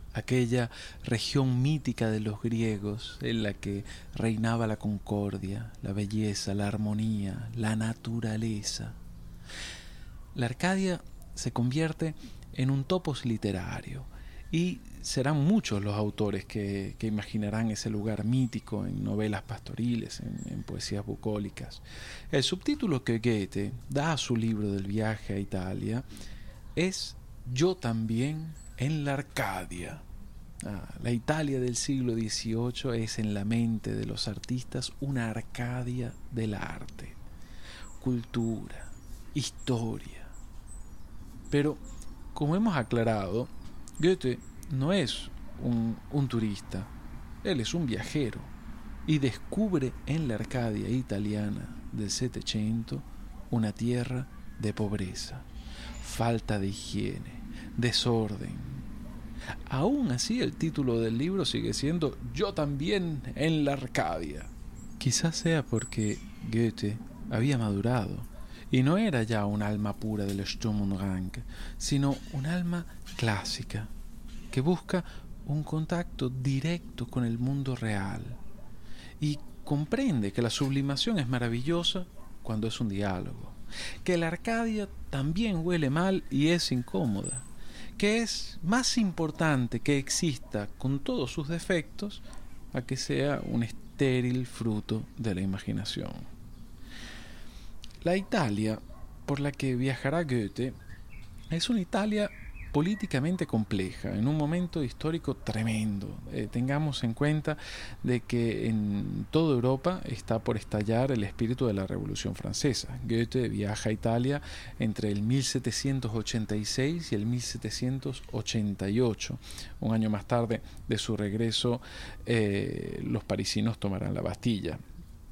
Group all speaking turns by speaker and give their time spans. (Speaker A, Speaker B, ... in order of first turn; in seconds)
Speaker A: 0.1-9.0, 10.3-26.1, 26.8-30.1, 30.6-37.2, 38.0-40.3, 41.5-41.8, 42.3-46.9, 47.4-48.5, 49.1-55.5, 56.0-58.9, 59.7-73.9, 74.5-78.4, 79.2-96.3, 98.0-100.7, 101.5-124.8